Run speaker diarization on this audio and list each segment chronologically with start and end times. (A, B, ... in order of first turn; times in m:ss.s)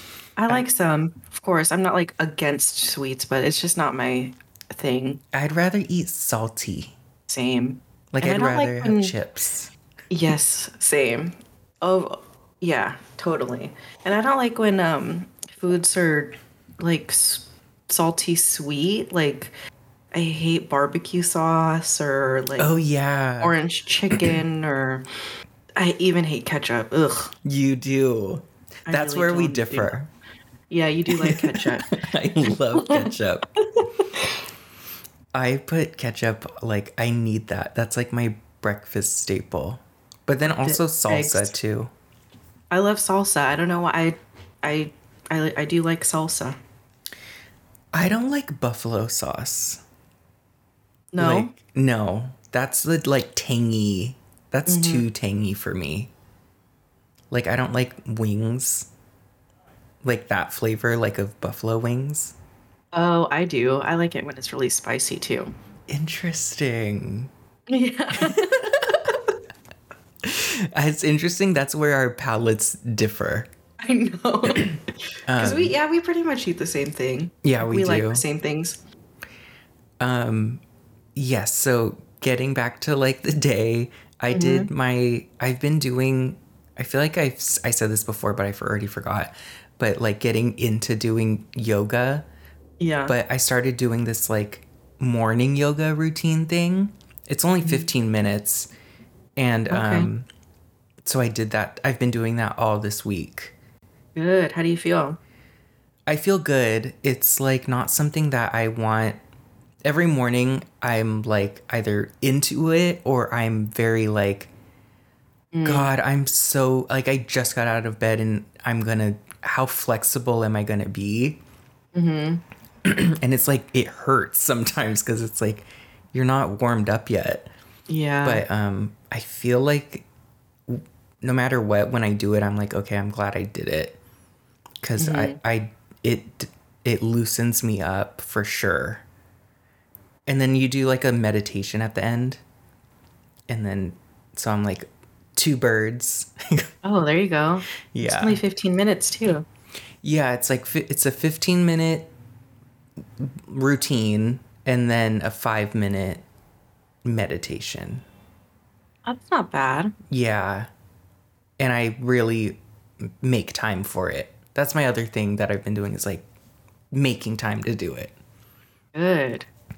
0:00.4-0:05.2 A
0:05.3-0:07.0 B
0:07.3-0:09.1 A
0:08.1-0:09.7 B
0:10.1-0:19.5 A
0:20.1-0:22.8 A
0:22.6-0:23.6 B
0:23.4-0:25.0 A
0:25.8-0:27.3 A
0:27.4-0:30.1 B
0:28.9-0:29.9 A
0:30.7-0:32.0 A
0:31.2-0:33.5 B
0:32.8-0:33.1 A
0:35.3-0:41.9 B
0:40.4-0:41.5 A
0:42.7-0:46.6 A
0:47.9-0:49.8 B
0:51.1-0:51.5 A
0:51.2-0:56.1 B
0:54.7-0:55.1 A
0:57.3-0:58.9 B
1:00.0-1:02.4 B
1:02.9-1:05.5 A
1:05.9-1:07.3 B
1:07.7-1:09.0 A
1:08.2-1:09.2 B
1:10.2-1:13.5 B
1:13.8-1:14.8 A
1:14.5-1:15.7 B
1:15.4-1:18.8 A
1:17.4-1:18.2 B
1:20.0-1:20.6 B
1:21.2-1:32.2 B
1:24.3-1:24.7 A
1:32.8-1:33.1 A
1:33.1-1:38.7 B
1:37.6-1:37.9 A
1:39.4-1:40.3 B
1:39.7-1:40.1 A
1:41.0-1:43.6 B
1:44.2-1:45.2 A
1:46.1-1:49.2 B
1:49.8-1:54.5 B
1:55.5-1:55.9 A
1:55.6-2:01.4 B
2:02.0-2:02.4 A
2:02.8-2:07.5 B
2:07.9-2:08.5 A
2:08.2-2:10.1 B
2:10.7-2:14.0 B
2:14.8-2:19.0 B
2:15.0-2:15.4 A
2:20.3-2:22.4 B
2:23.5-2:26.7 B
2:26.8-2:29.4 A
2:27.9-2:28.4 B
2:30.0-2:32.1 B
2:33.2-2:36.2 B
2:37.0-2:38.0 B
2:39.1-2:39.9 A
2:40.1-2:40.7 B
2:41.6-2:46.3 B
2:46.9-2:48.1 B
2:49.0-2:49.5 A